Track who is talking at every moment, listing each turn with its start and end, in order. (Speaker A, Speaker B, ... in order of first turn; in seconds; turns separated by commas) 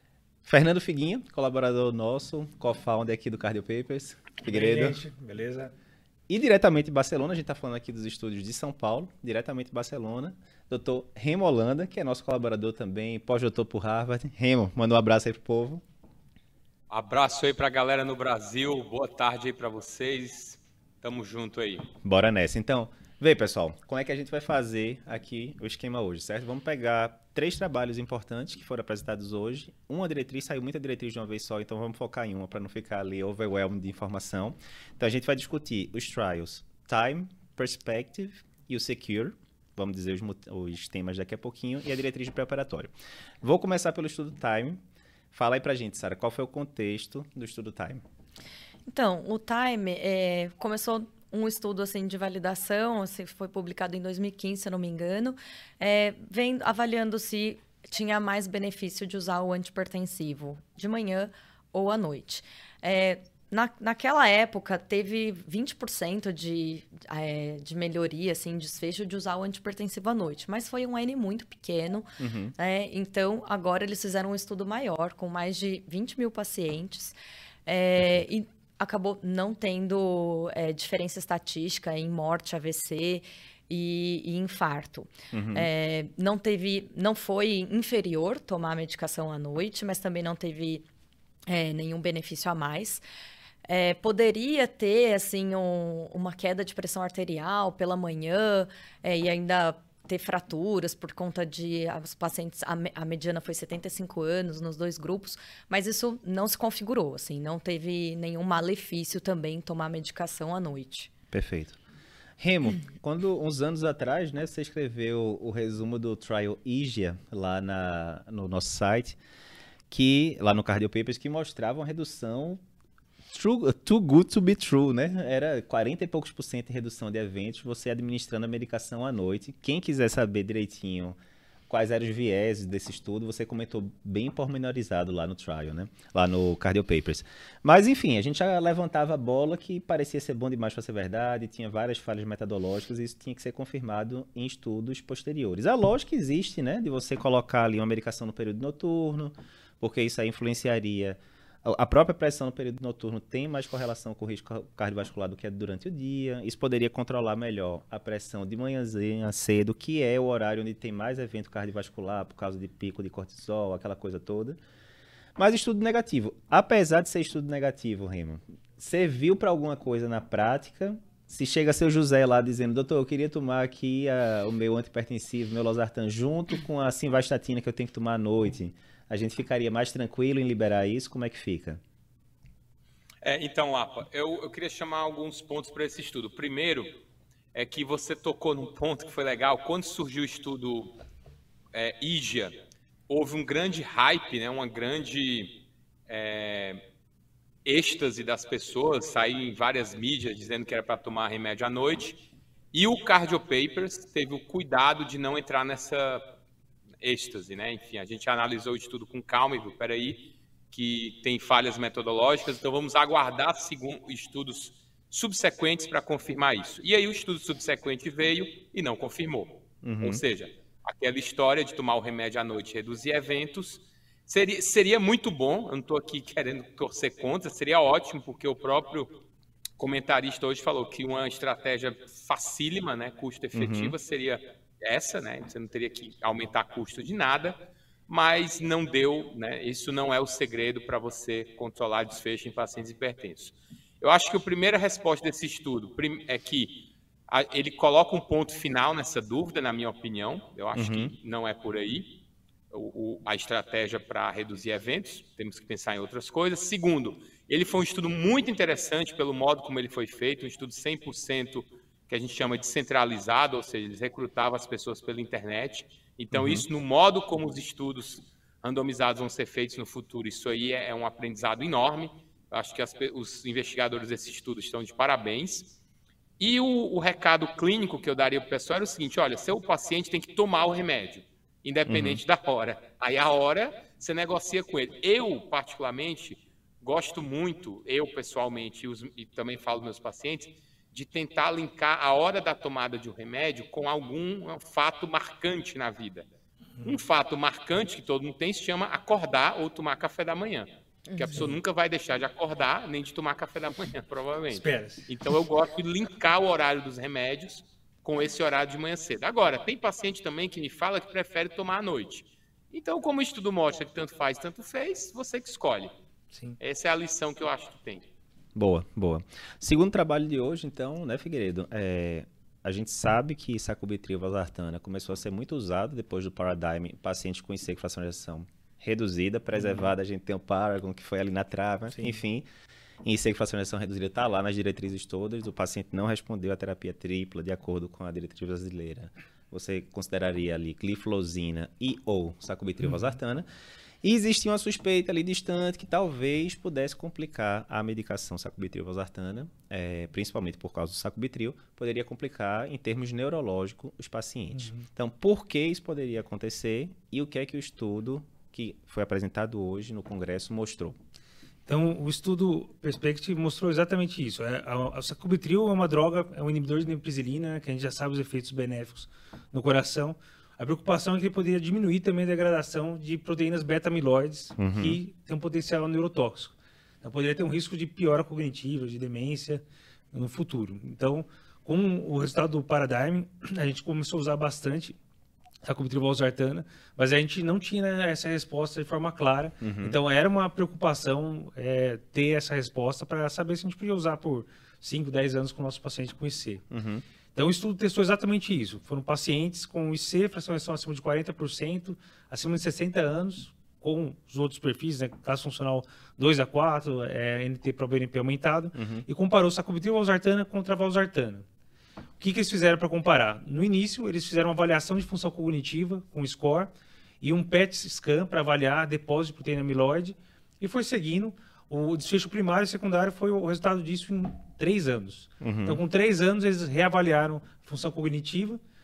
Speaker A: 0.4-5.0, Speaker B: 4.4-5.7, Speaker A: 6.3-15.8, Speaker C: 16.9-21.9, Speaker A: 22.0-44.8, Speaker A: 45.3-48.0, Speaker D: 48.9-77.1, Speaker A: 72.2-72.5, Speaker D: 77.7-90.8, Speaker A: 85.3-85.7, Speaker D: 91.5-93.0, Speaker D: 93.7-111.1, Speaker A: 111.3-111.8, Speaker A: 112.4-119.2, Speaker A: 119.9-122.6, Speaker A: 123.3-131.2, Speaker A: 131.7-164.6, Speaker A: 165.3-181.8, Speaker C: 183.2-187.0, Speaker C: 187.5-190.9, Speaker C: 191.7-192.6, Speaker C: 193.1-196.8, Speaker C: 197.6-206.2, Speaker C: 207.0-229.1, Speaker A: 219.8-220.2, Speaker C: 229.8-252.1, Speaker A: 233.5-233.9, Speaker A: 250.7-251.1, Speaker C: 252.7-275.7, Speaker A: 266.3-266.6, Speaker C: 276.4-296.3, Speaker A: 281.9-282.2, Speaker C: 296.8-315.9, Speaker D: 301.1-301.4, Speaker B: 301.2-301.5, Speaker B: 304.5-305.1, Speaker B: 316.3-316.6, Speaker C: 316.6-318.1, Speaker A: 318.6-332.5, Speaker B: 329.5-329.9, Speaker B: 331.9-332.2, Speaker A: 333.0-343.5, Speaker A: 344.0-360.9, Speaker B: 354.5-354.9, Speaker B: 361.7-384.9, Speaker A: 374.6-375.0, Speaker B: 385.6-396.6, Speaker A: 389.6-390.0, Speaker A: 396.7-397.0, Speaker B: 397.3-411.4, Speaker A: 408.7-409.1, Speaker B: 412.2-428.6, Speaker A: 425.4-425.8